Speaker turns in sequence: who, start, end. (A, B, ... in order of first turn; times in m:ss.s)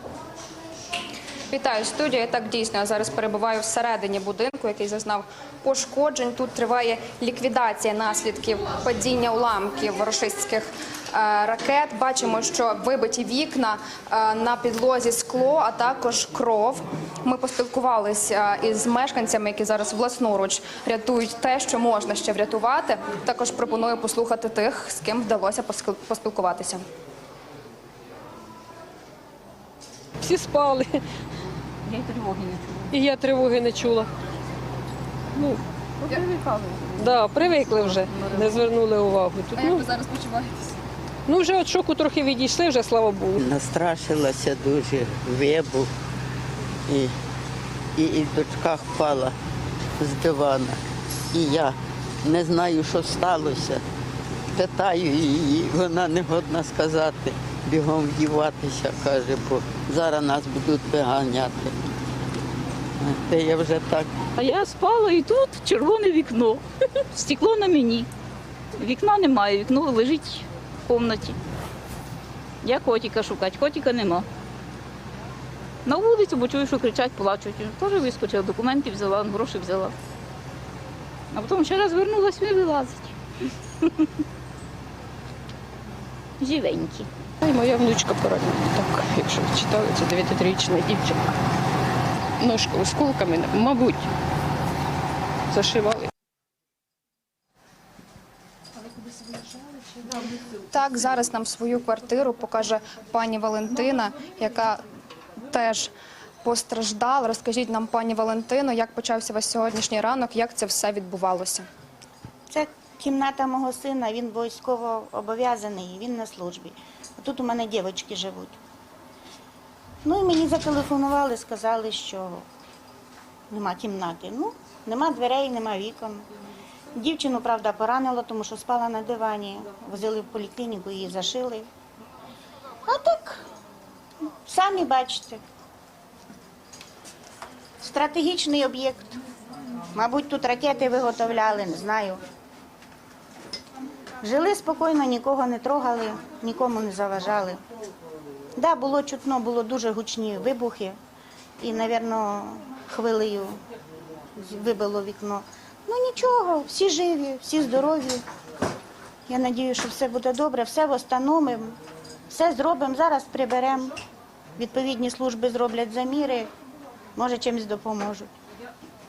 0:01.5-0:26.8 A
0:30.2-0:31.0 B
0:31.8-0:33.0 C
0:32.9-0:34.1 B
0:36.0-0:38.7 C
0:37.0-0:39.8 B
0:39.5-0:40.6 A
0:41.3-0:43.4 B
0:43.4-0:45.9 D
0:46.9-0:47.1 D
0:48.0-0:49.3 D
0:50.0-0:50.8 D
0:51.3-0:53.8 D
0:54.5-1:01.8 D
1:03.0-1:04.1 D
1:04.4-1:06.6 C
1:07.1-1:08.1 C
1:08.8-1:11.4 C
1:12.6-1:14.2 C
1:15.8-1:19.9 C
1:21.3-1:23.1 C
1:23.8-1:24.1 C
1:26.4-1:27.1 C
1:27.4-1:31.2 B
1:32.4-1:34.1 B
1:35.5-1:36.1 B
1:40.7-1:44.8 A
1:45.5-1:45.9 A
1:46.4-1:51.7 A
1:52.5-1:58.6 E
2:00.0-2:02.4 E
2:03.5-2:06.3 E
2:06.9-2:11.7 E
2:12.8-2:13.4 E
2:14.4-2:15.4 E
2:17.8-2:19.2 E
2:19.9-2:22.2 E
2:24.2-2:27.6 E
2:28.6-2:31.0 E
2:31.6-2:33.6 E
2:34.4-2:38.2 E
2:39.3-2:41.8 E
2:42.3-2:43.9 E
2:44.6-2:46.5 E
2:47.2-2:48.3 E